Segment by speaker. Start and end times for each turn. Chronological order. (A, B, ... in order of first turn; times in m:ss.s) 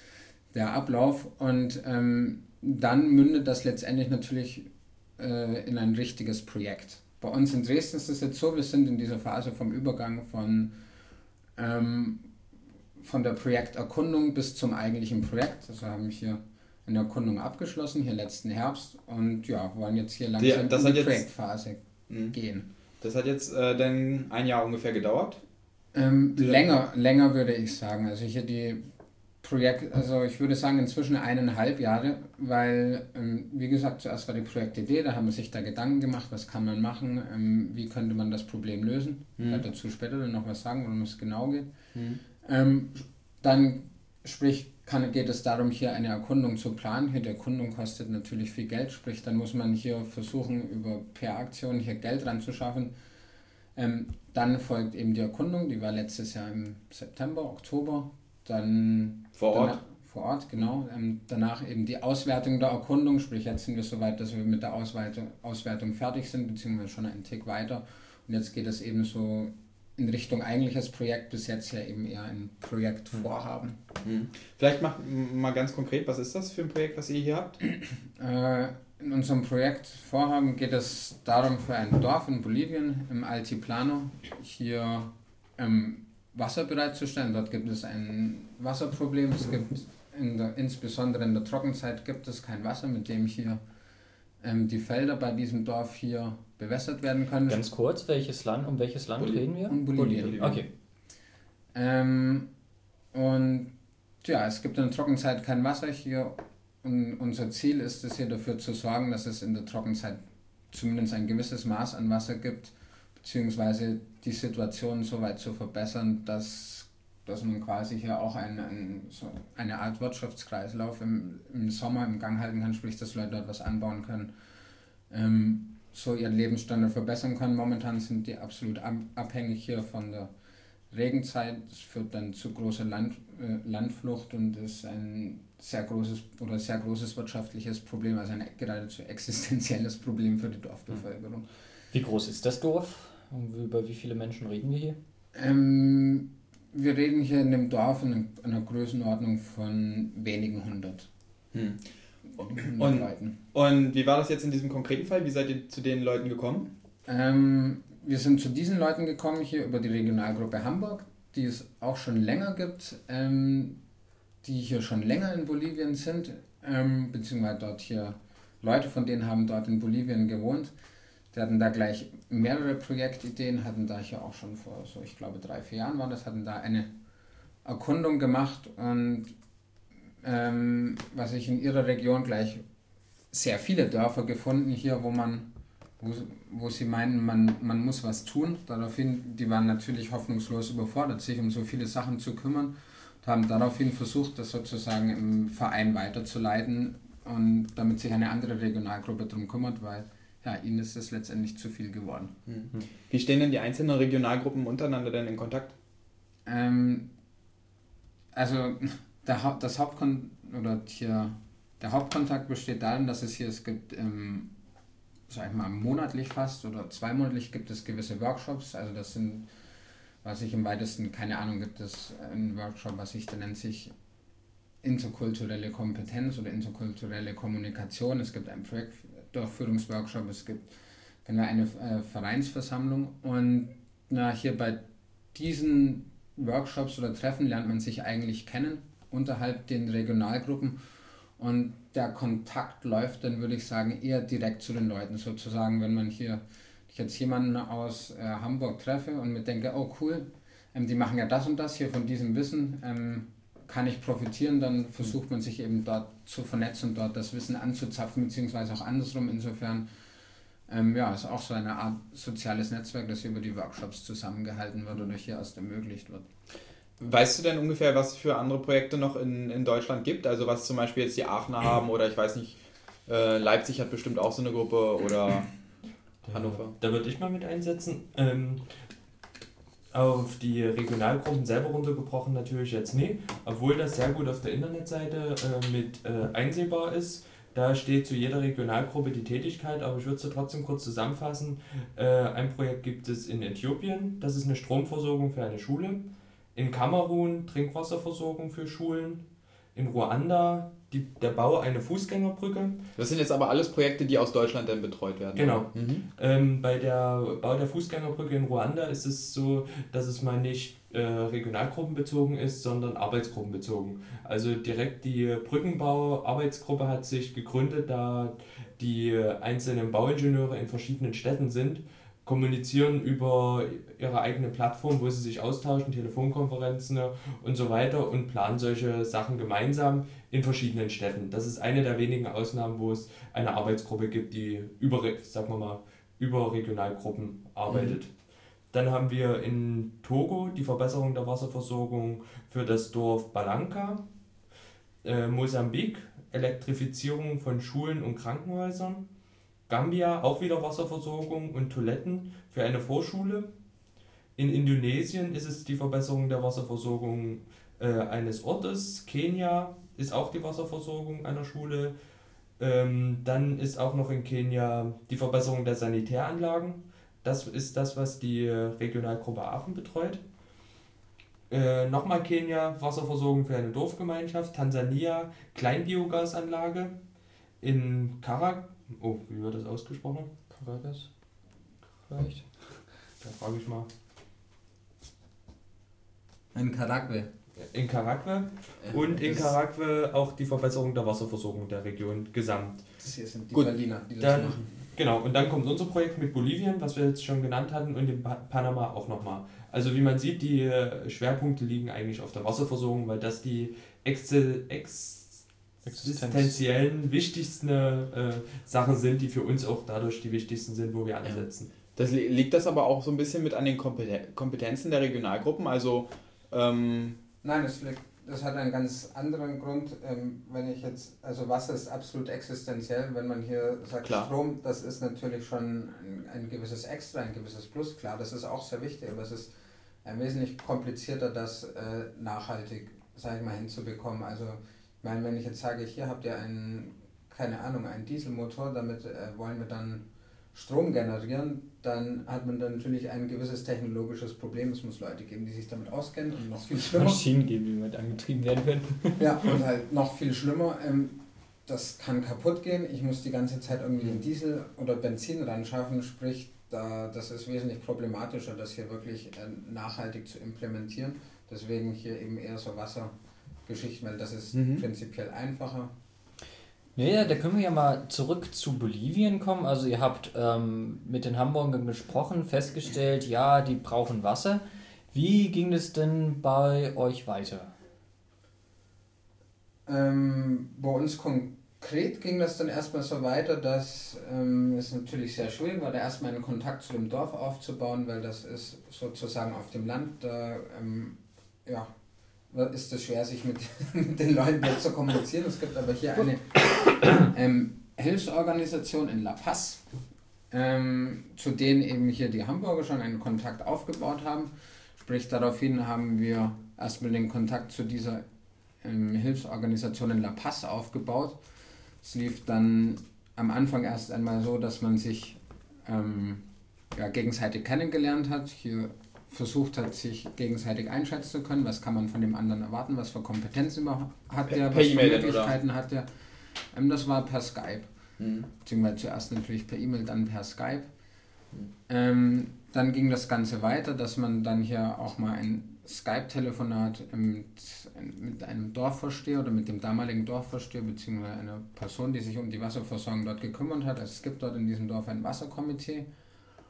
0:00.5-0:10.8 A
0:11.6-0:12.3 A
0:13.0-0:22.7 A
0:20.4-0:21.2 B
0:23.0-0:25.4 B
0:25.9-0:28.8 A
0:29.4-0:41.7 A
0:39.4-0:39.6 B
0:41.9-0:42.2 B
0:42.4-0:52.9 A
0:53.8-1:13.8 A
0:59.4-0:59.8 B
1:14.0-1:17.6 B
1:17.8-1:33.6 A
1:34.4-1:37.6 A
1:37.5-1:40.7 C
1:39.2-1:40.6 B
1:39.7-1:40.6 A
1:41.7-1:42.5 A
1:43.1-1:43.7 A
1:44.2-1:50.2 A
1:50.7-2:04.3 A
2:05.1-2:10.3 A
2:10.9-2:21.5 A
2:21.9-2:25.0 C
2:25.4-2:31.1 A
2:31.5-2:31.9 B
2:32.4-2:33.4 A
2:32.5-2:36.7 B
2:37.1-2:43.8 A
2:44.4-2:50.7 A
2:51.3-2:56.9 A
2:57.6-2:59.4 A
3:00.2-3:02.6 A
3:03.3-3:22.4 A
3:22.5-3:25.7 B
3:26.5-3:27.1 A
3:28.3-3:34.5 A
3:35.3-3:39.5 A
3:40.2-3:43.9 A
3:44.8-4:00.8 A
4:01.4-4:19.9 A
4:20.7-4:26.3 A
4:27.0-4:35.5 B
4:36.2-4:38.6 D
4:36.3-4:36.7 B
4:39.9-5:02.8 D
5:03.0-5:06.0 B
5:05.4-5:38.1 D
5:37.7-5:38.0 B
5:38.7-5:44.0 D
5:45.0-5:49.1 D
5:49.7-5:53.5 D
5:54.4-6:02.0 D
6:02.6-6:10.2 D
6:11.5-6:17.0 D
6:17.6-6:20.3 D
6:20.5-6:21.1 C
6:22.1-6:22.5 C
6:23.2-6:23.9 D
6:26.6-6:27.3 A
6:27.6-6:32.8 D
6:28.8-6:29.5 B
6:33.0-6:34.7 A
6:34.2-6:51.7 D
6:45.9-6:46.6 C
6:52.0-6:57.2 B
6:57.4-7:09.5 A
7:04.0-7:04.3 B
7:10.0-7:27.2 A
7:26.8-7:29.2 C
7:29.2-7:43.1 A
7:43.7-7:45.9 A
7:44.5-7:44.8 B
7:47.0-7:57.7 C
7:59.9-8:11.9 A
8:12.5-8:19.8 A
8:20.5-8:28.2 A
8:28.8-8:31.4 A
8:32.0-8:46.1 A
8:44.5-8:45.6 B
8:46.7-8:47.9 A
8:48.2-8:48.5 B
8:48.6-8:50.9 A
8:51.9-9:06.1 A